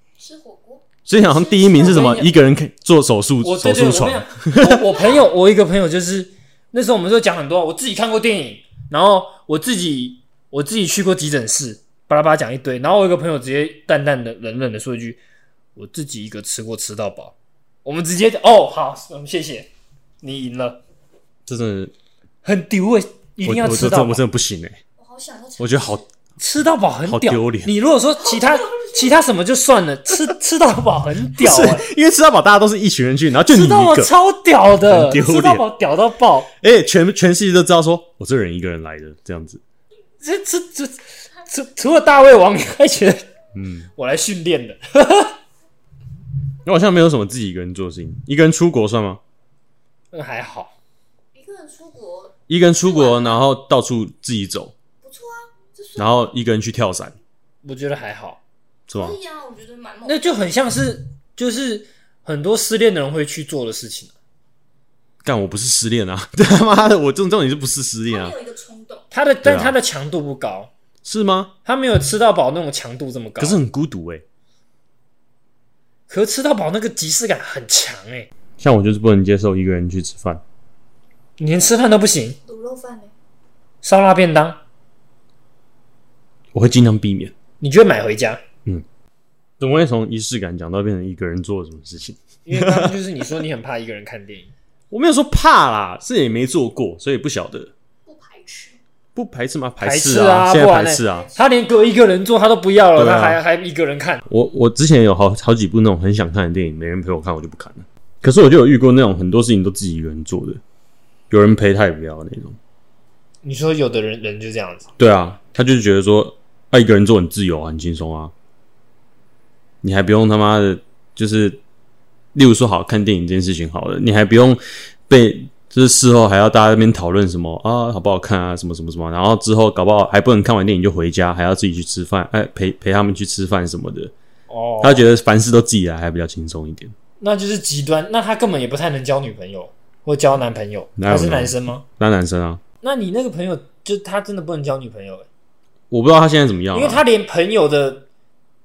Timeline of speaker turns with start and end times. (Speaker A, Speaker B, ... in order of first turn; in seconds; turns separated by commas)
Speaker A: 0.2-2.3, Speaker B: 1.1-5.0, Speaker C: 1.8-2.3, Speaker C: 3.4-15.2, Speaker C: 15.8-17.3, Speaker C: 17.9-19.7, Speaker C: 20.2-20.8, Speaker B: 21.5-21.9, Speaker C: 22.4-24.2, Speaker B: 23.4-24.8, Speaker A: 25.0-26.0, Speaker B: 25.6-26.0, Speaker C: 26.4-31.9, Speaker B: 27.1-27.7, Speaker B: 31.4-34.1, Speaker C: 33.5-36.5, Speaker B: 34.8-35.6, Speaker B: 36.6-39.6, Speaker C: 40.2-43.2, Speaker B: 43.5-43.9, Speaker C: 44.0-45.4, Speaker B: 46.6-49.2, Speaker C: 50.1-50.7, Speaker A: 51.4-53.4, Speaker B: 52.5-54.7, Speaker A: 55.0-56.1, Speaker B: 56.0-57.2, Speaker C: 57.6-58.4, Speaker B: 58.9-59.2, Speaker A: 58.9-60.3, Speaker C: 60.0-64.1, Speaker B: 65.2-68.4, Speaker A: 68.1-69.1, Speaker C: 69.1-70.7, Speaker B: 69.4-69.8, Speaker B: 71.0-71.5, Speaker C: 71.7-73.6, Speaker B: 73.4-74.2, Speaker C: 76.1-78.3, Speaker B: 78.6-80.4, Speaker C: 81.4-82.4, Speaker A: 82.5-83.1, Speaker C: 83.8-84.6, Speaker B: 86.5-87.3, Speaker C: 87.6-88.4, Speaker B: 89.6-93.1, Speaker C: 92.5-94.5, Speaker B: 94.9-97.7, Speaker A: 98.1-98.8, Speaker B: 99.2-101.3, Speaker C: 99.8-104.2, Speaker B: 103.0-103.4, Speaker B: 104.3-110.6, Speaker B: 111.3-112.6, Speaker C: 113.4-114.9, Speaker B: 115.0-118.3, Speaker B: 119.8-121.6, Speaker B: 122.3-134.1, Speaker C: 134.5-135.1, Speaker B: 134.8-136.9, Speaker C: 137.2-141.8, Speaker B: 141.0-142.6, Speaker C: 142.8-145.3, Speaker B: 145.9-147.0, Speaker C: 146.7-148.1